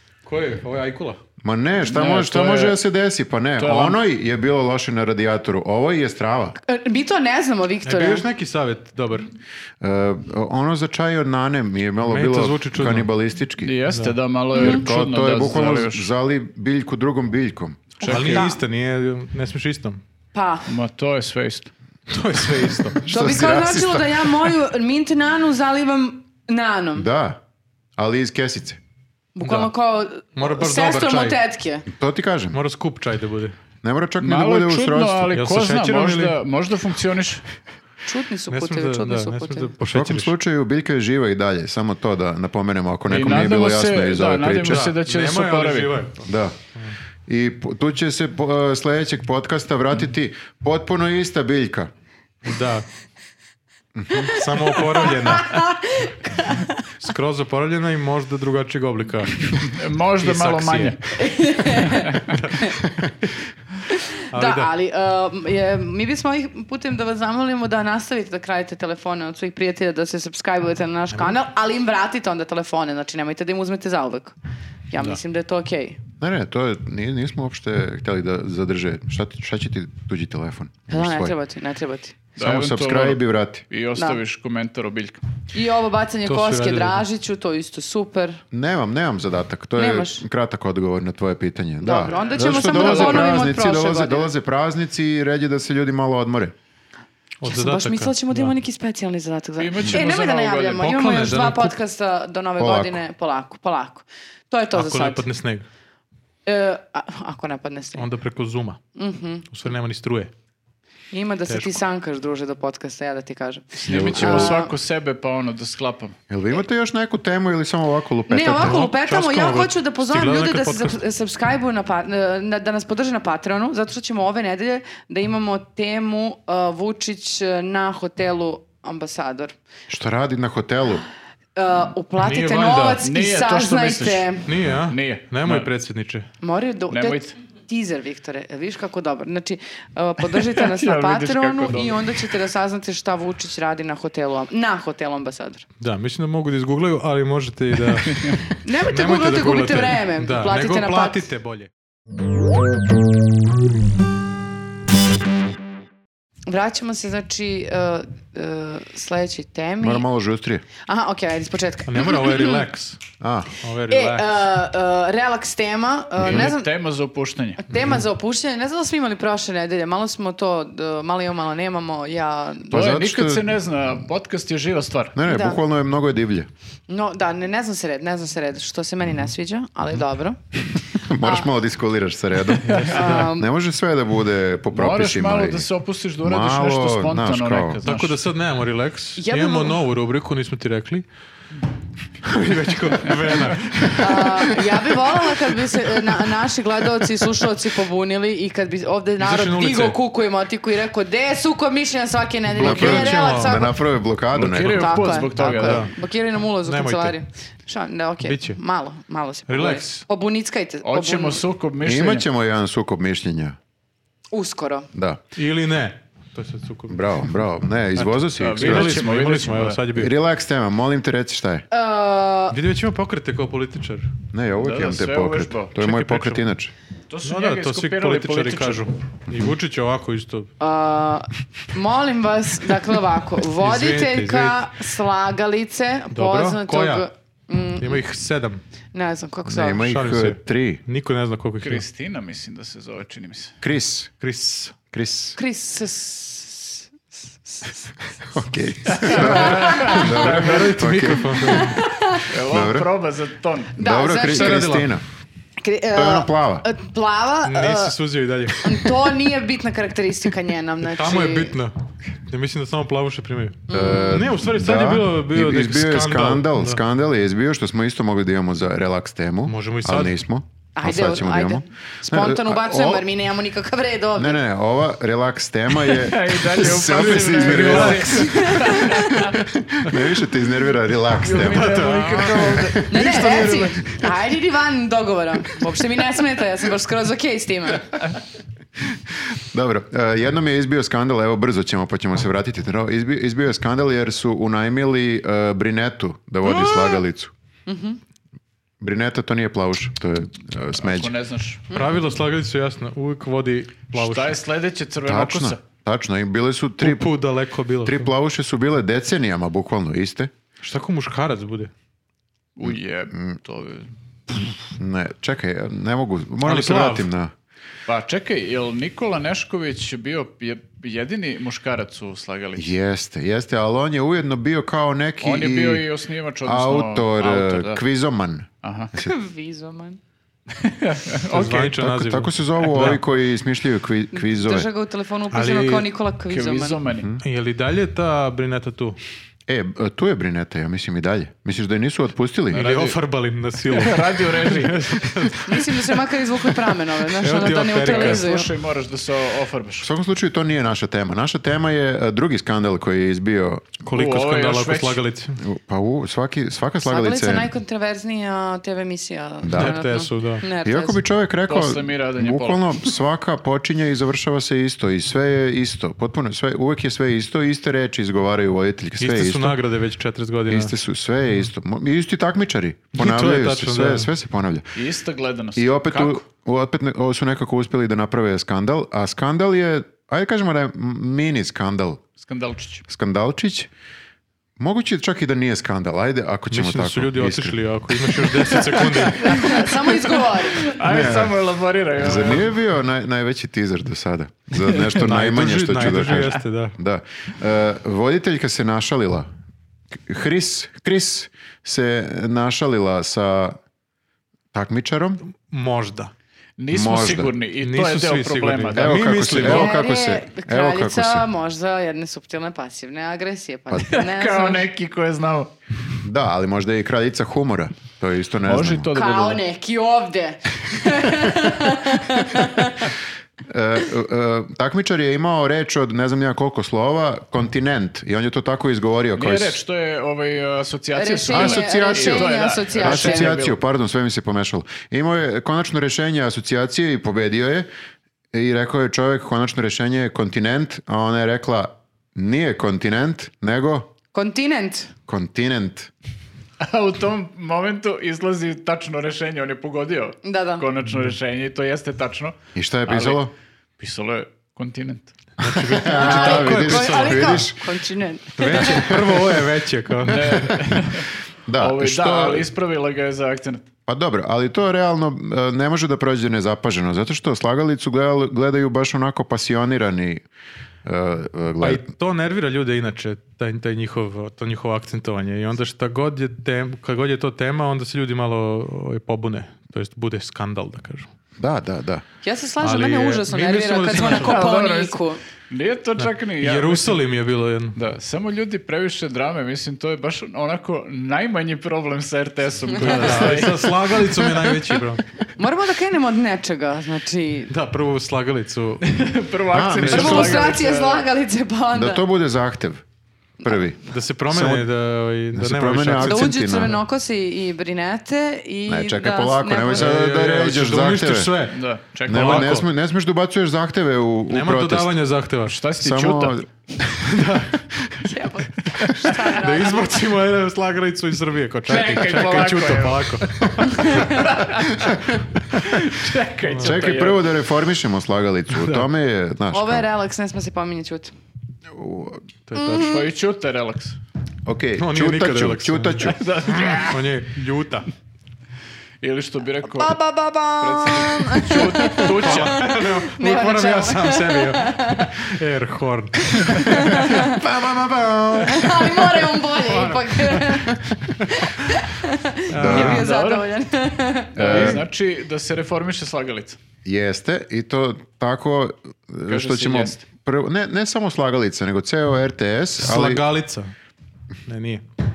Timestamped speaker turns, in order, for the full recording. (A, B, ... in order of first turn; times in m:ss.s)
0:00.2-0:01.2 A
0:01.4-0:06.6 B
0:01.8-0:02.8 C
0:03.6-0:04.0 C
0:06.6-0:08.2 D
0:07.8-0:09.3 A
0:09.8-0:13.8 B
0:12.0-0:13.1 A
0:13.6-0:16.1 C
0:13.9-0:14.2 A
0:14.5-0:18.0 B
0:14.5-0:14.9 D
0:18.0-0:18.6 D
0:18.0-0:18.5 C
0:18.0-0:20.0 A
0:20.3-0:20.7 D
0:20.7-0:21.7 C
0:22.1-0:23.0 A
0:23.0-0:24.5 B
0:23.1-0:27.1 D
0:27.0-0:27.4 B
0:28.0-0:28.8 B
0:29.3-0:31.8 D
0:29.4-0:29.7 A
0:30.3-0:31.4 A
0:31.9-0:32.6 B
0:32.5-0:33.6 A
0:33.8-0:35.3 B
0:34.2-0:37.4 C
0:35.3-0:36.3 A
0:38.0-0:39.7 D
0:38.5-0:40.3 A
0:39.8-0:44.9 B
0:43.1-0:46.0 C
0:44.6-0:46.9 A
0:46.2-0:46.6 B
0:47.3-0:51.9 B
0:52.4-0:52.9 A
0:53.9-0:54.3 B
0:54.3-0:55.7 A
0:54.6-0:56.8 D
0:57.0-0:59.6 A
0:59.6-1:01.1 C
1:00.2-1:01.0 A
1:01.2-1:02.8 D
1:02.3-1:02.9 A
1:03.9-1:14.4 D
1:04.3-1:04.7 A
1:14.9-1:16.0 D
1:16.2-1:21.3 B
1:20.9-1:22.2 D
1:22.4-1:25.2 C
1:22.4-1:23.6 B
1:24.0-1:24.2 D
1:25.5-1:28.4 D
1:26.2-1:27.0 A
1:28.5-1:36.5 B
1:29.8-1:30.2 D
1:31.8-1:34.3 D
1:32.6-1:33.3 C
1:37.4-1:38.5 A
1:37.4-1:45.2 D
1:39.6-1:40.9 C
1:40.8-1:41.8 A
1:42.6-1:43.0 B
1:44.7-1:45.6 A
1:46.4-1:48.0 D
1:47.9-1:48.8 A
1:49.0-1:49.4 D
1:49.5-1:50.3 A
1:51.1-1:54.7 D
1:51.5-1:51.8 A
1:53.8-1:56.2 C
1:53.9-1:54.6 B
1:56.3-1:58.8 B
1:58.3-2:09.6 D
1:58.6-2:01.0 A
2:09.9-2:11.0 B
2:11.6-2:14.5 D
2:12.2-2:13.0 A
2:13.0-2:15.7 C
2:14.4-2:16.3 A
2:16.4-2:25.6 D
2:16.9-2:17.3 C
2:20.4-2:22.3 C
2:25.8-2:31.7 A
2:28.1-2:28.4 C
2:28.6-2:31.2 D
2:36.5-2:40.0 D
2:39.8-2:40.6 B
2:40.8-2:42.7 D
2:41.8-2:43.0 A
2:43.2-2:43.5 B
2:43.6-2:44.3 A
2:43.9-2:46.7 D
2:46.2-2:47.6 C
2:47.6-2:52.8 D
2:52.7-2:53.5 B
2:52.7-2:55.2 C
2:55.1-2:56.5 B
2:55.2-2:55.6 D
2:56.9-3:00.4 D
3:01.0-3:05.7 B
3:01.2-3:01.5 D
3:02.6-3:03.3 A
3:02.7-3:03.1 C
3:02.9-3:03.5 D
3:04.7-3:08.2 C
3:06.2-3:07.8 B
3:07.8-3:11.0 A
3:09.2-3:09.8 D
3:12.2-3:14.8 A
3:14.0-3:23.8 D
3:19.2-3:20.0 A
3:22.5-3:23.7 A
3:22.6-3:25.2 B
3:24.3-3:25.9 C
3:24.7-3:31.4 D
3:25.6-3:25.9 A
3:26.6-3:27.2 A
3:28.2-3:28.6 A
3:29.5-3:30.0 A
3:30.8-3:32.2 C
3:31.8-3:33.6 B
3:34.3-3:34.9 D
3:34.9-3:35.2 B
3:35.3-3:37.3 A
3:36.9-3:39.0 B
3:38.0-3:40.1 A
3:38.4-3:39.8 C
3:39.9-3:41.6 B
3:41.7-3:42.6 D
3:42.5-3:44.1 A
3:44.3-3:46.7 B
3:44.6-3:45.8 C
3:45.8-3:46.4 A
3:47.1-3:48.8 C
3:47.2-3:50.5 A
3:50.6-3:58.0 D
3:53.5-3:54.6 A
3:56.1-3:57.0 A
3:57.8-3:58.6 A
3:58.9-3:59.9 D
3:59.4-4:00.8 B
3:59.8-4:01.8 A
4:01.6-4:03.5 C
4:03.6-4:04.1 B
4:04.2-4:04.8 A
4:04.9-4:05.4 B
4:05.4-4:07.9 D
4:08.3-4:11.7 B
4:08.9-4:10.6 C
4:09.0-4:10.0 D
4:09.9-4:11.8 A
4:11.4-4:12.3 D
4:12.2-4:13.8 C
4:12.5-4:12.9 B
4:13.8-4:14.6 D
4:13.8-4:15.0 B
4:14.2-4:14.9 A
4:15.6-4:17.9 D
4:15.9-4:16.6 B
4:17.4-4:19.0 A
4:18.5-4:21.6 D
4:20.8-4:21.7 A
4:22.3-4:26.8 A
4:23.7-4:24.2 D
4:23.7-4:33.0 B
4:29.4-4:30.1 A
4:30.8-4:34.4 D
4:34.2-4:42.8 B
4:35.8-4:39.3 C
4:36.9-4:38.3 A
4:38.1-4:39.3 D
4:41.1-4:42.8 C
4:41.4-4:44.0 A
4:42.9-4:47.9 D
4:49.1-4:57.3 B
4:56.4-4:57.0 D
4:57.7-4:58.0 D
4:58.8-5:01.1 B
5:00.8-5:01.6 C
5:01.7-5:04.4 A
5:03.9-5:05.6 C
5:05.0-5:07.2 B
5:06.8-5:08.1 A
5:07.8-5:10.3 B
5:10.6-5:11.7 A
5:12.6-5:13.9 C
5:12.6-5:13.3 B
5:14.3-5:17.3 B
5:16.4-5:17.1 A
5:17.9-5:22.7 C
5:22.6-5:25.8 B
5:25.2-5:27.8 C
5:26.4-5:29.1 B
5:28.6-5:28.9 C
5:29.0-5:30.0 D
5:30.5-5:31.6 C
5:31.3-5:33.0 A
5:31.3-5:34.7 B
5:34.1-5:36.8 D
5:35.3-5:35.9 A
5:36.3-5:37.1 C
5:37.0-5:37.2 B
5:37.2-5:39.0 A
5:39.5-5:42.7 B
5:42.5-5:46.0 A
5:42.5-5:43.0 C
5:43.6-5:45.1 C
5:45.4-5:48.5 D
5:47.0-5:48.2 A
5:47.8-5:49.9 C
5:49.8-5:53.7 B
5:53.8-5:55.4 A
5:53.9-5:55.0 C
5:55.4-5:57.5 B
5:56.8-6:01.0 D
5:59.4-5:59.8 B
5:59.5-6:00.4 A
6:00.6-6:09.6 B
6:01.5-6:02.9 C
6:09.0-6:10.7 A
6:10.5-6:14.7 B
6:12.9-6:14.1 A
6:14.7-6:16.2 C
6:15.6-6:22.0 B
6:22.2-6:22.8 C
6:22.9-6:23.7 B
6:24.6-6:27.6 B
6:26.5-6:29.8 A
6:28.6-6:29.6 C
6:29.2-6:30.8 D
6:30.4-6:32.5 C
6:30.8-6:31.3 B
6:32.0-6:39.3 B
6:35.0-6:36.8 A
6:39.9-6:43.6 B
6:44.5-6:45.2 B
6:45.4-6:46.1 A
6:46.6-6:49.4 C
6:46.7-6:47.3 B
6:47.6-6:49.7 A
6:48.7-6:51.2 B
6:49.4-6:54.7 D
6:53.8-6:55.5 C
6:56.0-6:58.9 B
6:58.4-6:59.4 C
6:58.9-7:02.9 D
7:03.5-7:09.6 B
7:09.1-7:13.6 C
7:10.9-7:13.4 D
7:11.3-7:17.7 B
7:18.3-7:23.9 B
7:24.1-7:24.9 D
7:25.1-7:25.9 B
7:26.6-7:32.4 C
7:30.2-7:30.6 D
7:32.5-7:33.3 B
7:32.9-7:33.2 C
7:33.8-7:35.1 C
7:35.4-7:37.4 A
7:35.5-7:37.6 B
7:35.8-7:39.0 D
7:38.4-7:40.6 A
7:38.6-7:39.4 B
7:40.0-7:41.1 C
7:41.5-7:42.5 B
7:41.6-7:43.6 C
7:43.9-7:50.2 B
7:50.8-7:51.8 B
7:51.6-8:01.1 A
8:01.4-8:02.0 B
8:02.2-8:05.2 D
8:02.6-8:04.4 A
8:03.9-8:07.0 C
8:06.0-8:07.8 A
8:07.7-8:14.1 C
8:12.8-8:15.0 A
8:15.4-8:17.5 D
8:17.5-8:18.9 A
8:18.9-8:21.0 C
8:19.5-8:20.4 B
8:19.8-8:20.4 A
8:19.9-8:22.0 D
8:21.7-8:22.8 B
8:23.4-8:24.7 B
8:23.9-8:26.4 A
8:25.3-8:26.8 B
8:26.0-8:29.9 D
8:28.7-8:31.3 B
8:29.7-8:32.7 A
8:31.5-8:32.5 C
8:32.0-8:35.0 B
8:34.3-8:35.6 A
8:35.4-8:36.4 C
8:35.8-8:37.2 B
8:37.0-8:37.6 A
8:38.0-8:40.1 D
8:39.0-8:44.3 A
8:41.7-8:44.9 C
8:43.7-8:44.3 D
8:45.6-8:47.3 C
8:46.4-8:46.8 A
8:46.6-8:49.8 B
8:48.5-8:48.9 A
8:49.5-8:51.1 D
8:51.7-8:52.2 B
8:52.5-8:53.0 A
8:52.5-8:53.1 D
8:52.7-8:54.0 C
8:54.4-8:56.2 B
8:54.8-8:57.9 A
8:56.1-8:57.1 C
8:59.0-9:00.0 C
8:59.7-9:05.2 D
9:00.6-9:02.7 C
9:02.1-9:11.8 A
9:06.3-9:07.4 D
9:08.4-9:14.7 D
9:12.5-9:13.0 A
9:12.6-9:13.0 B
9:12.7-9:13.4 C
9:14.4-9:16.6 C
9:14.4-9:14.8 B
9:16.8-9:23.2 B
9:19.3-9:20.0 C
9:22.8-9:23.7 A
9:24.4-9:24.8 A